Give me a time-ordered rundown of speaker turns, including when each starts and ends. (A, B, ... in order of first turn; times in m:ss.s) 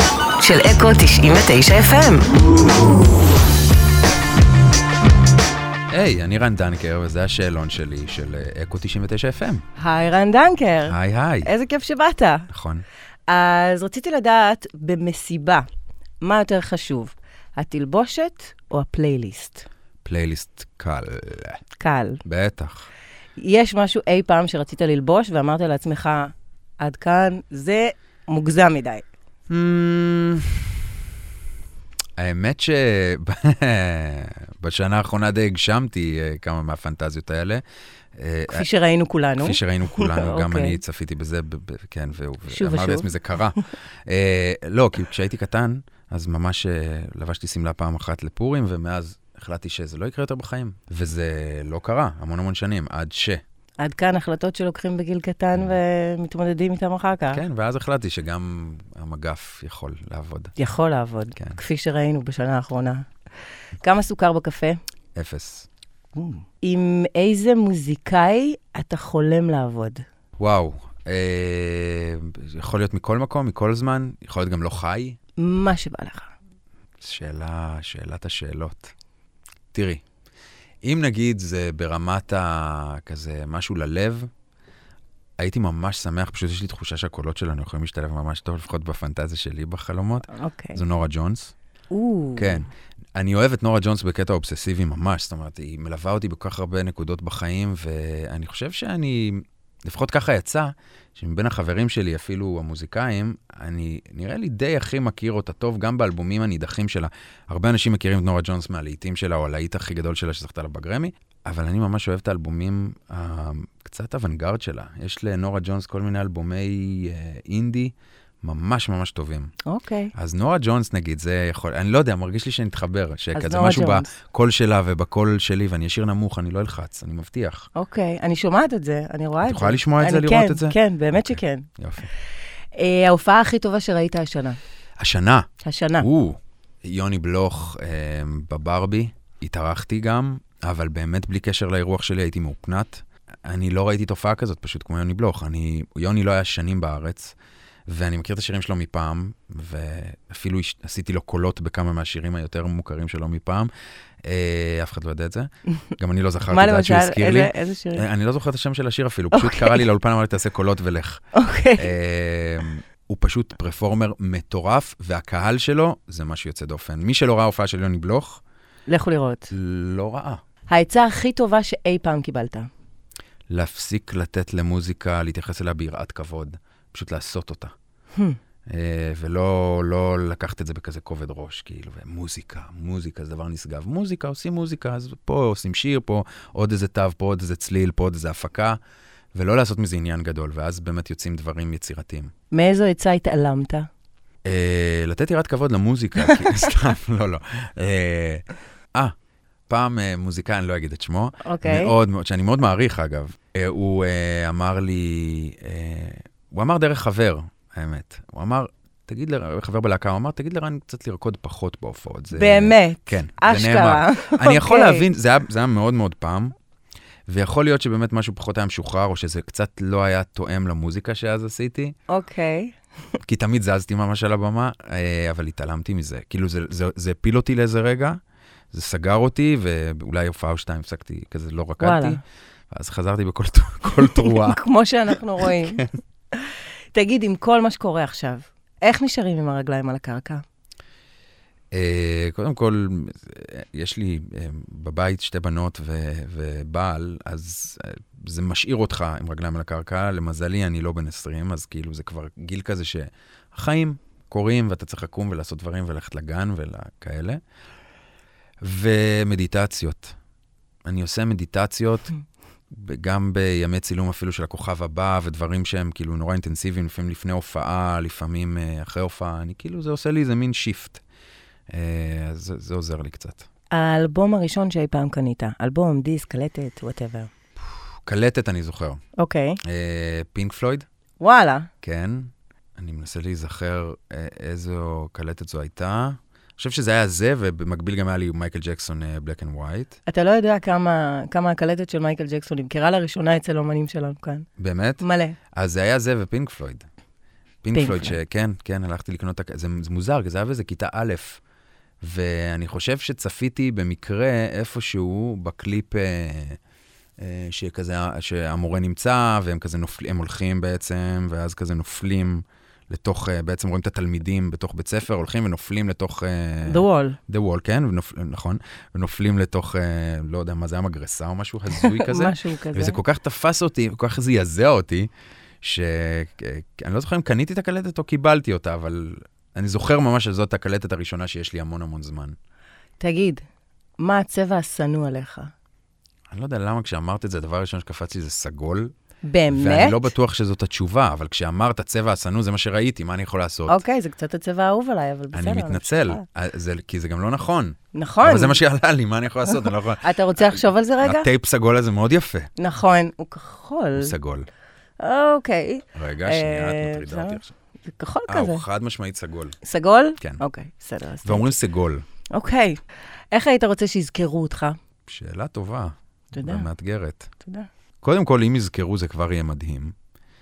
0:00.4-0:02.4 A
0:05.9-0:09.6 B
0:09.8-0:12.5 A
0:10.8-0:11.5 B
0:12.5-0:12.8 B
0:13.3-0:15.6 A
0:16.2-0:19.6 A
0:20.0-0:21.6 B
0:21.8-0:22.2 A
0:22.2-0:22.9 B
0:23.4-0:29.1 A
0:29.5-0:30.8 B
0:32.2-0:37.6 B
0:38.2-0:38.6 B
0:38.5-0:40.8 A
0:39.4-0:53.4 B
0:42.5-0:43.4 A
0:53.8-0:57.4 A
0:57.3-1:00.5 B
1:00.6-1:03.1 A
1:03.8-1:04.8 A
1:05.2-1:05.7 B
1:06.2-1:10.0 A
1:10.4-1:15.2 B
1:15.4-1:16.3 A
1:17.0-1:18.9 B
1:19.7-1:20.0 B
1:20.8-1:24.3 B
1:25.4-1:31.5 B
1:30.3-1:30.8 A
1:31.9-1:32.6 A
1:32.4-1:59.5 B
1:59.6-2:00.1 A
2:00.1-2:07.7 B
2:03.3-2:04.1 A
2:07.8-2:11.7 A
2:09.4-2:12.1 B
2:12.7-2:14.6 A
2:15.0-2:15.5 B
2:15.6-2:16.1 A
2:16.0-2:27.3 B
2:27.9-2:33.7 B
2:34.2-2:41.2 B
2:36.5-2:38.0 A
2:39.3-2:39.8 A
2:41.3-2:41.9 A
2:41.8-2:48.4 B
2:48.9-2:49.5 A
2:49.5-2:50.4 B
2:50.7-2:52.7 A
2:53.5-2:57.7 B
2:58.7-3:08.8 B
3:09.3-3:12.3 B
3:12.5-3:13.9 A
3:14.4-3:19.1 B
3:19.7-3:36.5 B
3:21.4-3:21.9 A
3:32.3-3:35.0 A
3:37.3-3:41.9 B
3:42.1-3:42.7 A
3:43.2-3:48.2 B
3:48.7-3:52.2 B
3:51.8-3:52.2 A
3:52.7-3:54.6 B
3:54.2-4:00.4 A
3:55.4-3:55.8 B
4:01.7-4:17.4 B
4:18.6-4:20.2 B
4:20.8-4:22.1 B
4:22.7-4:31.0 B
4:31.7-4:33.5 B
4:33.7-4:37.3 A
4:38.0-4:39.0 B
4:39.2-4:39.6 A
4:39.6-4:40.9 B
4:41.2-4:41.7 A
4:41.8-4:50.0 B
4:50.1-4:54.5 A
4:54.6-4:55.0 B
4:55.0-4:55.4 A
4:55.5-4:56.9 B
4:57.6-5:01.4 B
4:57.7-4:58.2 A
5:02.0-5:06.6 B
5:07.2-5:25.1 B
5:16.6-5:17.2 A
5:21.7-5:23.0 A
5:25.6-5:32.4 B
5:33.0-5:33.4 A
5:34.0-5:35.5 A
5:36.3-5:38.9 B
5:39.2-5:40.1 A
5:39.5-5:43.8 B
5:43.7-5:46.2 A
5:45.3-5:52.5 B
5:47.9-5:48.6 A
5:49.5-5:51.3 A
5:52.6-5:54.1 A
5:54.0-5:54.5 B
5:55.0-5:58.6 A
5:55.9-5:57.5 B
5:58.3-5:59.6 B
5:59.6-6:01.5 A
6:01.2-6:02.0 B
6:02.3-6:02.8 A
6:03.3-6:04.8 A
6:05.1-6:07.3 B
6:06.3-6:06.7 A
6:07.4-6:07.7 A
6:08.0-6:09.9 B